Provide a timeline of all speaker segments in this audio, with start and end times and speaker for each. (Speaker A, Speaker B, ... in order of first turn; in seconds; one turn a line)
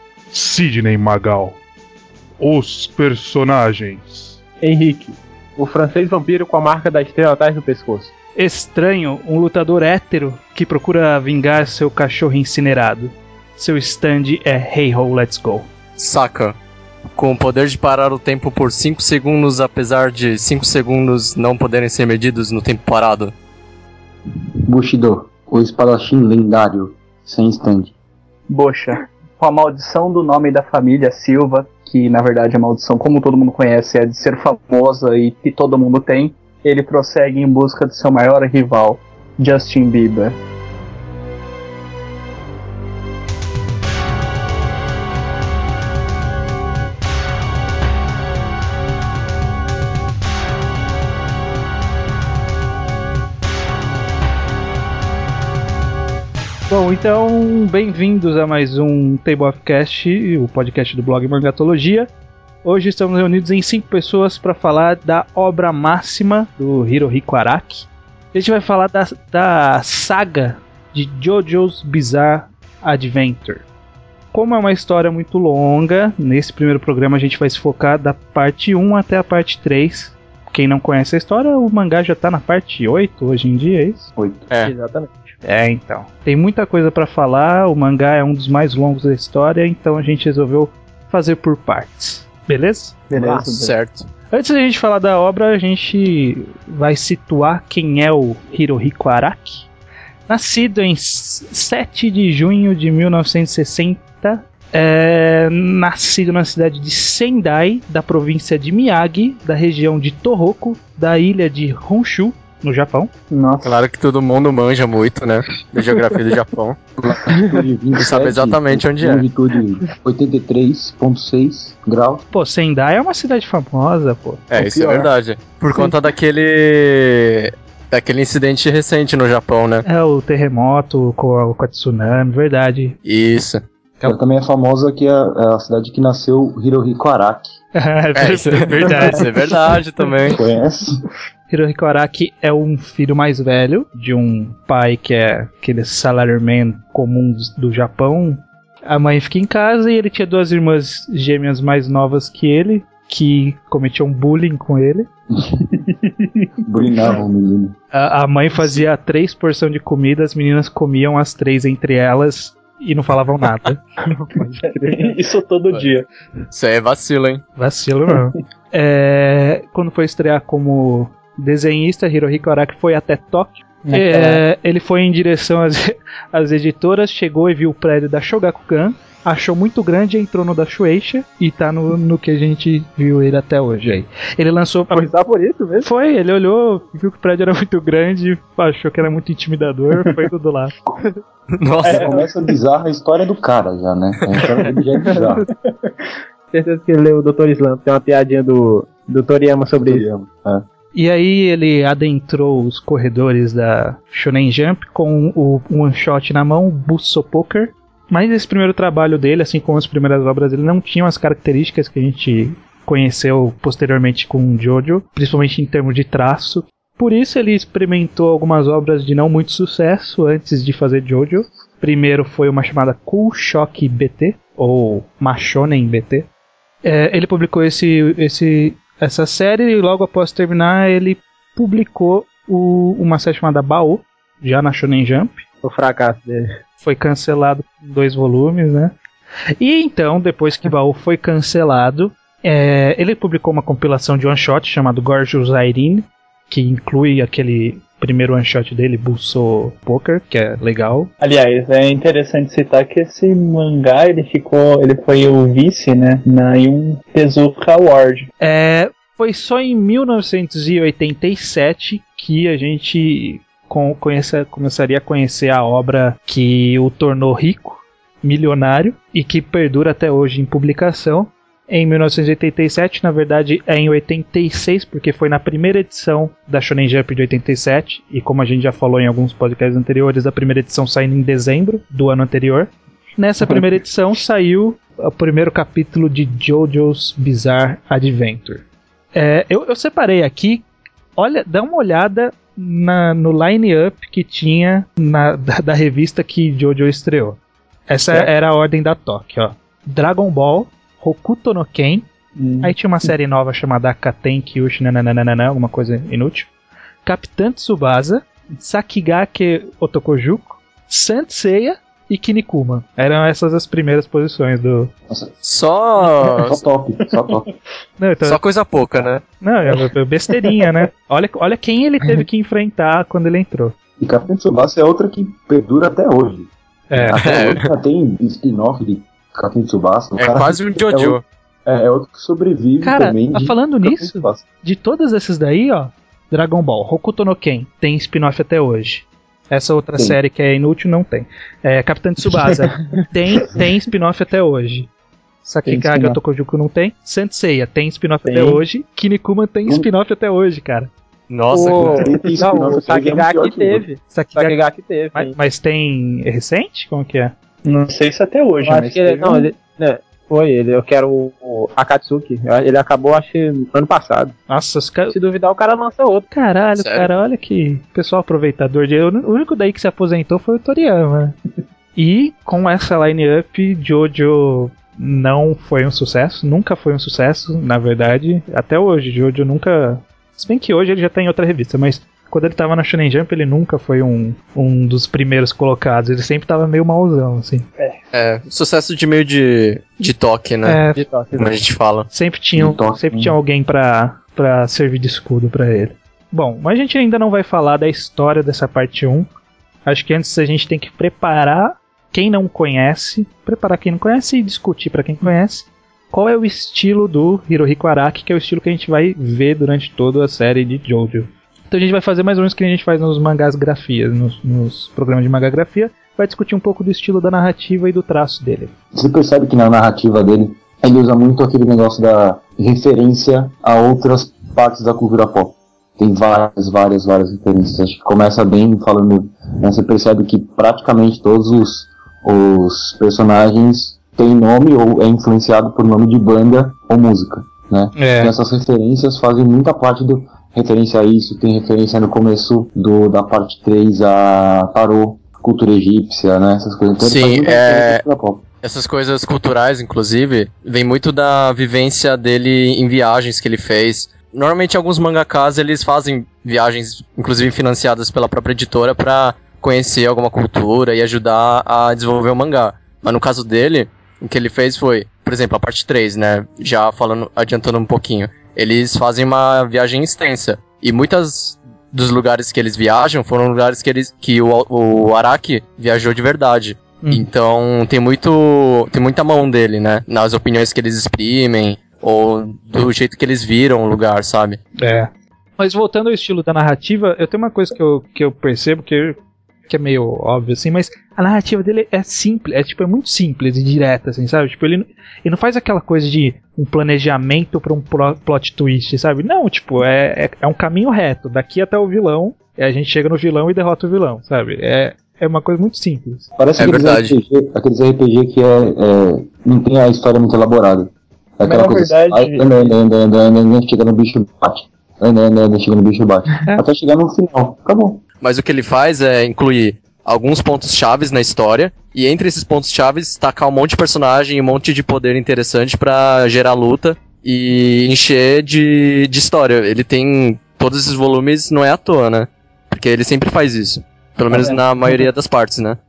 Speaker A: 0.3-1.6
Speaker A: 2.4-4.4
Speaker B: 4.6-8.1
Speaker C: 8.3-15.7
Speaker D: 16.0-16.5
Speaker D: 17.1-23.3
Speaker E: 24.7-27.9
Speaker F: 28.5-40.4
Speaker C: 56.7-62.1
Speaker C: 62.6-73.6
Speaker C: 74.3-84.1
Speaker E: 84.2-84.5
Speaker B: 84.6-85.3
Speaker C: 85.4-93.0
Speaker F: 93.1-93.7
Speaker B: 93.2-93.5
Speaker D: 93.3-94.1
Speaker C: 94.3-99.7
Speaker C: 100.3-113.1
Speaker F: 113.3-113.8
Speaker D: 113.6-116.8
Speaker E: 117.0-122.2
Speaker B: 117.3-117.6
Speaker D: 118.0-119.2
Speaker C: 122.3-124.5
Speaker D: 124.5-129.8
Speaker E: 124.5-125.0
Speaker C: 129.8-133.0
Speaker D: 133.0-133.6
Speaker E: 134.0-137.6
Speaker C: 137.7-139.3
Speaker D: 138.1-140.4
Speaker E: 140.3-141.0
Speaker C: 141.5-155.1
Speaker E: 155.3-155.6
Speaker F: 155.8-156.3
Speaker E: 156.6-157.7
Speaker C: 157.9-163.8
Speaker B: 164.1-164.9
Speaker F: 164.5-166.1
Speaker D: 166.5-167.4
Speaker C: 167.6-185.1
Speaker F: 173.8-174.4
Speaker B: 184.9-185.9
Speaker C: 185.8-190.7
Speaker D: 191.6-192.1
Speaker B: 191.8-192.1
Speaker E: 191.9-195.5
Speaker B: 195.1-195.4
Speaker B: 196.5-200.0
Speaker E: 199.8-200.6
Speaker C: 200.9-226.3
Speaker C: 226.8-235.4
Speaker B: 235.6-236.6
Speaker C: 236.8-238.9
Speaker C: 239.6-251.1
Speaker F: 251.2-258.3
Speaker C: 258.4-290.6
Speaker C: 291.2-302.1
Speaker F: 302.4-302.7
Speaker C: 302.6-306.5
Speaker C: 307.0-314.9
Speaker E: 315.1-315.4
Speaker D: 315.4-316.6
Speaker E: 316.1-317.5
Speaker C: 318.0-318.4
Speaker D: 318.2-319.2
Speaker C: 319.4-323.7
Speaker E: 324.0-334.4
Speaker C: 326.9-327.2
Speaker D: 327.2-327.6
Speaker D: 330.2-331.2
Speaker C: 332.8-344.9
Speaker C: 345.4-350.9
Speaker F: 345.6-346.2
Speaker F: 348.2-348.6
Speaker D: 351.3-352.1
Speaker C: 351.5-352.0
Speaker B: 351.5-355.3
Speaker E: 351.8-353.8
Speaker C: 354.1-354.6
Speaker C: 355.1-357.3
Speaker F: 357.6-359.5
Speaker B: 358.6-364.3
Speaker C: 364.5-365.1
Speaker B: 365.1-366.3
Speaker C: 366.3-371.4
Speaker D: 366.8-367.1
Speaker C: 371.9-387.7
Speaker D: 388.1-390.8
Speaker C: 390.6-391.1
Speaker B: 391.0-391.4
Speaker D: 391.3-392.1
Speaker C: 392.1-399.3
Speaker E: 392.6-393.3
Speaker C: 399.9-418.7
Speaker E: 418.9-448.4
Speaker C: 437.9-438.3
Speaker D: 447.0-448.0
Speaker D: 448.6-484.6
Speaker C: 484.8-506.3
Speaker E: 506.4-518.0
Speaker D: 506.6-507.1
Speaker F: 511.4-512.7
Speaker D: 518.2-535.8
Speaker E: 534.3-534.6